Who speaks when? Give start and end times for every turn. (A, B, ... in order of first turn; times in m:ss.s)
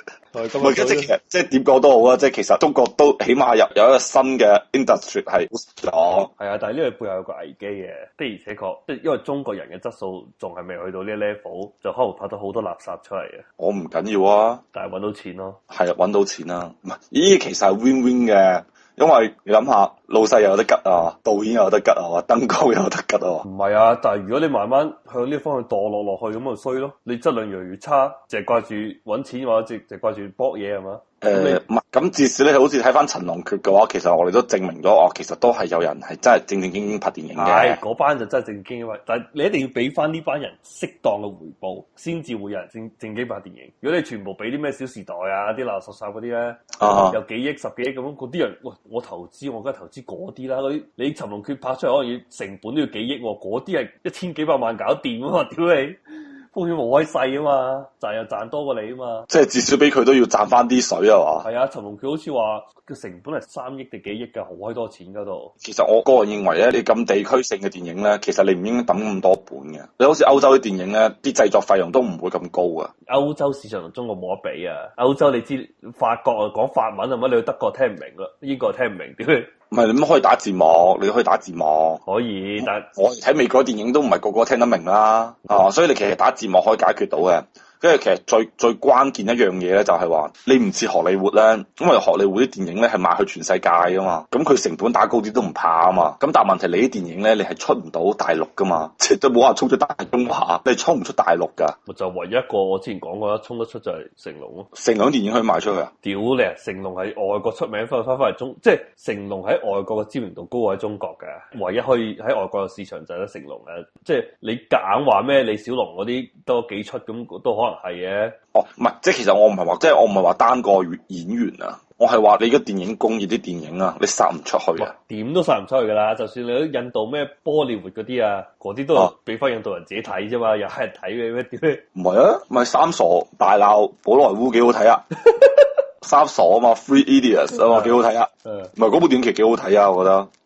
0:00.3-0:01.1 A
0:00.6-0:06.3 B
0:06.4-0:13.4 A
0:13.6-0:14.6 B
0:14.7-0:15.6 A
0:15.7-0:23.4 B
0:23.4-0:31.6 A
0:31.2-0:37.8 B
0:37.4-0:56.0 A
0:46.8-0:47.2 B
0:56.5-0:59.3 A
0:59.3-1:01.5 B
1:01.4-1:05.5 A
1:05.6-1:12.9 B
1:13.1-1:19.5 A
1:19.7-1:22.0 B
1:22.0-1:22.9 A
1:22.6-1:41.8 B
1:41.9-1:44.7 A
1:44.7-1:45.9 B
1:46.0-1:58.4 A
1:58.5-2:04.9 B
2:04.8-2:11.8 A
2:11.9-2:15.0 B
2:15.3-2:15.7 A
2:16.0-2:20.3 B
2:17.6-2:18.7 A